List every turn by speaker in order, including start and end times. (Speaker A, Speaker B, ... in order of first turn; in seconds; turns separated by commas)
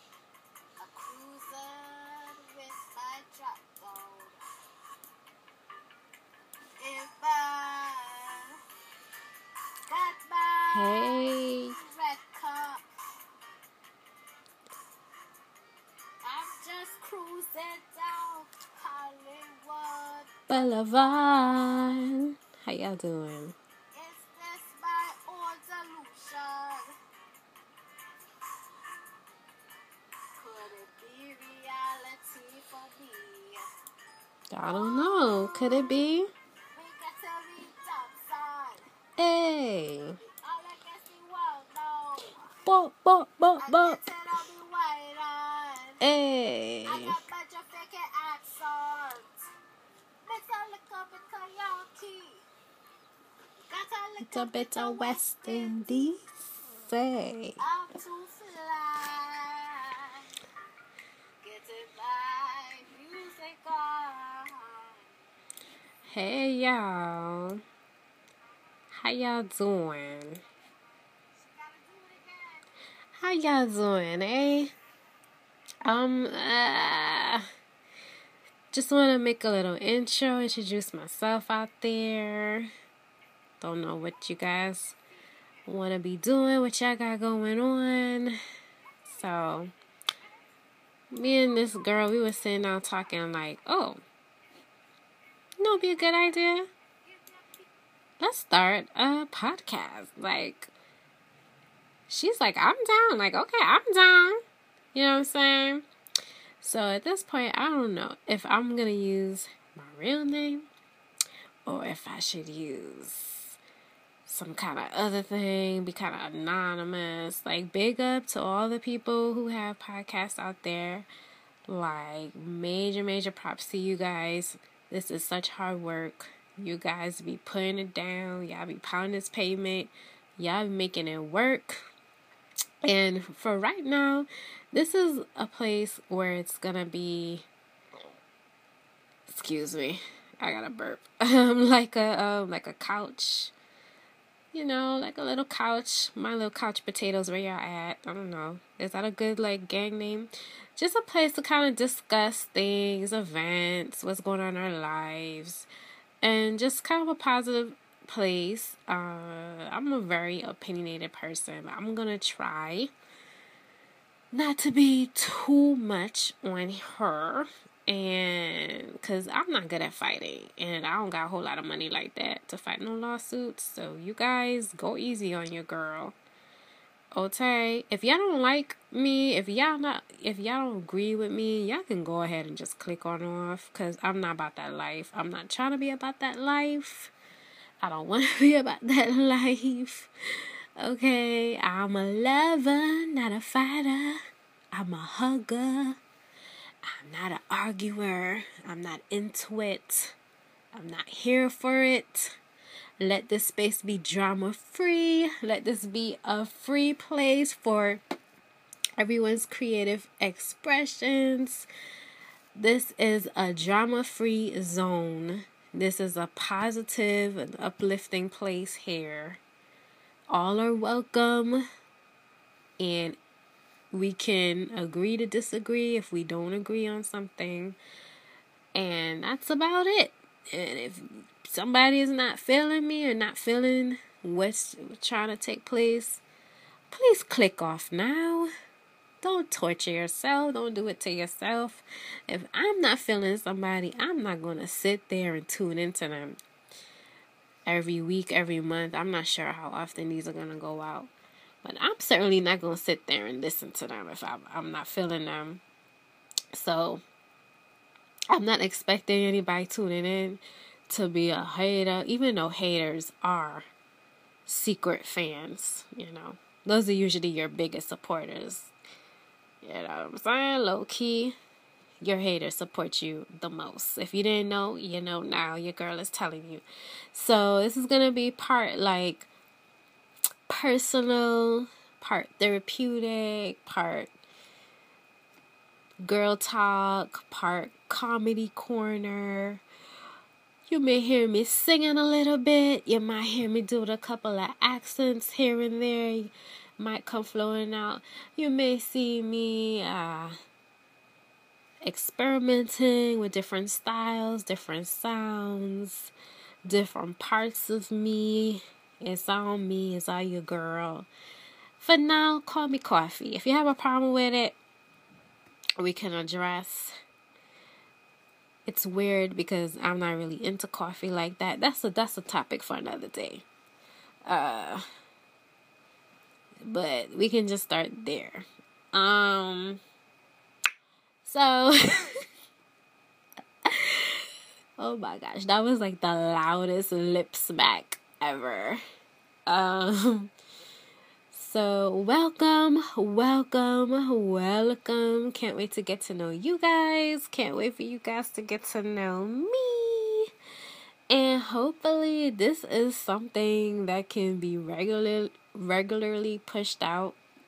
Speaker A: 0.8-4.4, Speaker A: 6.8-8.6, Speaker A: 9.9-12.8, Speaker B: 10.7-11.8, Speaker A: 16.2-20.3, Speaker B: 20.5-23.6, Speaker A: 23.9-26.9, Speaker A: 30.4-33.6, Speaker B: 34.5-36.3, Speaker A: 34.6-35.9, Speaker A: 36.7-38.8, Speaker B: 39.2-40.2, Speaker A: 40.2-42.5, Speaker B: 42.6-44.0, Speaker A: 43.6-46.0, Speaker B: 46.0-47.2, Speaker A: 46.9-49.4, Speaker A: 50.3-52.5, Speaker A: 53.7-56.1, Speaker B: 54.2-57.6, Speaker A: 57.6-60.3, Speaker A: 61.4-65.1, Speaker B: 66.1-67.6, Speaker B: 68.9-70.4, Speaker A: 71.5-72.6, Speaker B: 73.2-74.7, Speaker B: 75.8-77.4, Speaker B: 78.7-82.7, Speaker B: 83.6-85.0, Speaker B: 85.7-88.4, Speaker B: 89.1-89.7, Speaker B: 91.1-94.0, Speaker B: 95.6-96.7, Speaker A: 97.2-97.7, Speaker B: 98.2-100.7, Speaker B: 102.1-104.4, Speaker B: 104.9-105.8, Speaker B: 106.6-110.7, Speaker B: 111.7-113.6, Speaker B: 114.3-121.1, Speaker B: 121.7-131.9, Speaker B: 132.8-137.5, Speaker B: 139.3-143.5, Speaker B: 144.5-155.7, Speaker B: 156.2-162.9, Speaker B: 164.3-176.2, Speaker B: 177.1-187.1, Speaker B: 187.8-194.2, Speaker B: 194.7-196.0, Speaker B: 196.8-200.2, Speaker B: 200.7-202.4, Speaker B: 203.0-208.0, Speaker B: 209.0-211.7, Speaker B: 212.6-219.4, Speaker B: 220.3-221.7, Speaker B: 222.8-223.2, Speaker B: 223.9-227.8, Speaker B: 228.7-236.2, Speaker B: 236.9-238.5, Speaker B: 239.2-246.4, Speaker B: 247.7-251.1, Speaker B: 251.6-255.6, Speaker B: 256.5-257.0, Speaker B: 258.3-263.7, Speaker B: 264.5-268.7, Speaker B: 269.6-271.4, Speaker B: 272.0-279.3, Speaker B: 280.5-284.1, Speaker B: 286.0-289.6, Speaker B: 290.7-300.4, Speaker B: 301.8-306.1, Speaker B: 306.7-311.1, Speaker B: 311.8-314.6, Speaker B: 315.8-316.9, Speaker B: 318.7-323.4, Speaker B: 324.3-324.8, Speaker B: 326.6-329.8, Speaker B: 331.2-332.1, Speaker B: 333.7-338.8, Speaker B: 339.5-340.3, Speaker B: 341.3-350.3, Speaker B: 351.1-357.2